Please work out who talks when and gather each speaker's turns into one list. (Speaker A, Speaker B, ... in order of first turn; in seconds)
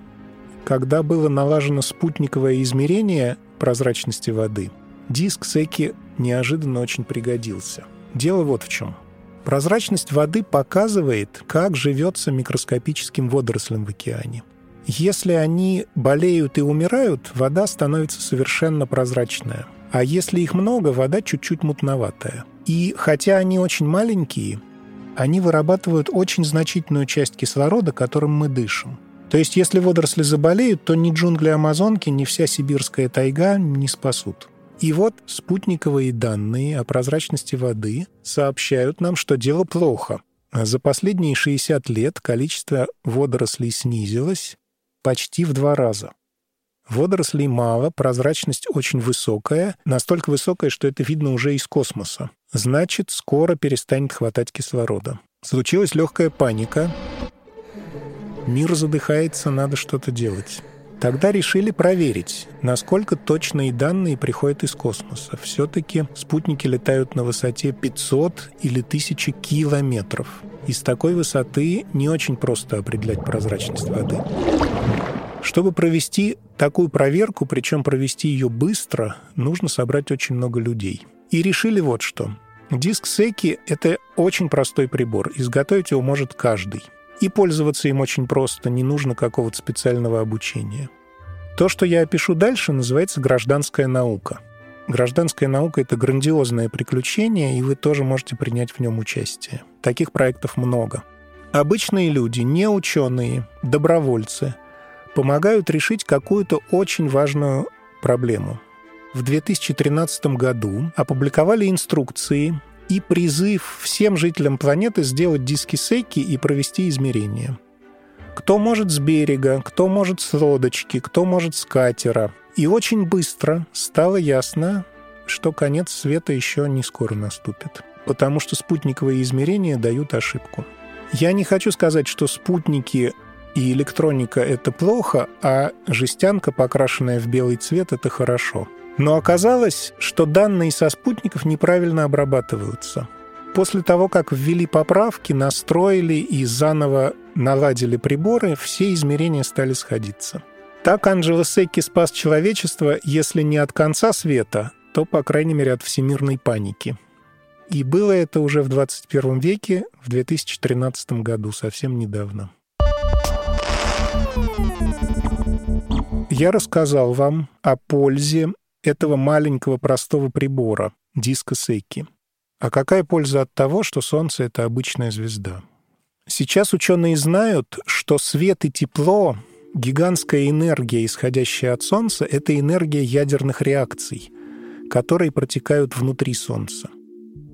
Speaker A: 0.6-24.6, 25.1-46.1, 46.9-56.9, 58.5-74.2, 75.4-90.9, 91.5-104.6, 105.1-108.6, 109.1-117.6, 118.3-156.9, 157.7-162.5, 166.3-172.1, 172.6-175.6, 176.3-184.3, 184.9-186.9